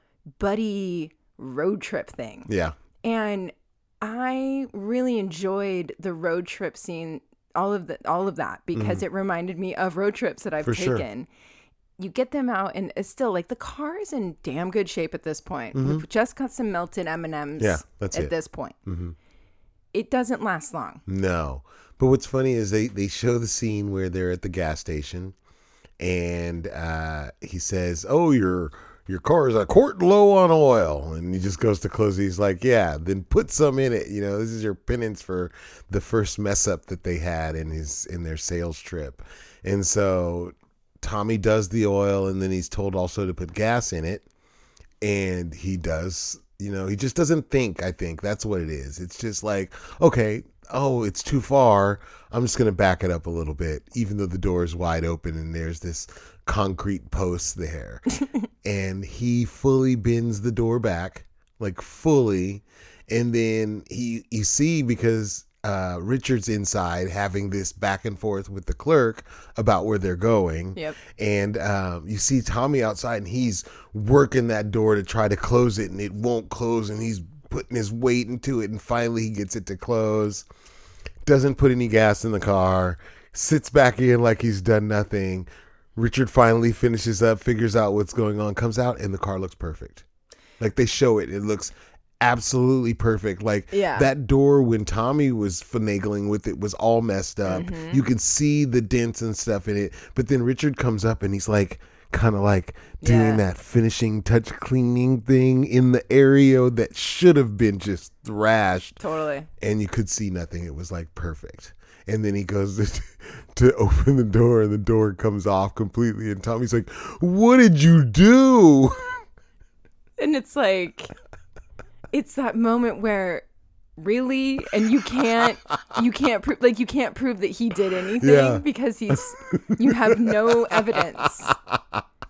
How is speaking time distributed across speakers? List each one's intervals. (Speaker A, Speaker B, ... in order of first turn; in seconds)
Speaker A: 0.4-2.5, 3.0-11.3, 12.0-18.8, 19.9-21.0, 93.7-94.1, 97.5-98.0, 103.0-103.4, 109.0-109.5, 120.2-121.1, 122.1-123.4, 124.0-131.5
Speaker B: 2.5-2.7, 8.7-9.0, 10.6-11.0, 15.7-16.0, 17.6-18.3, 18.9-19.1, 21.1-25.3, 26.0-44.2, 45.0-58.1, 58.6-80.4, 81.2-90.0, 90.6-109.0, 109.6-119.2, 128.2-132.0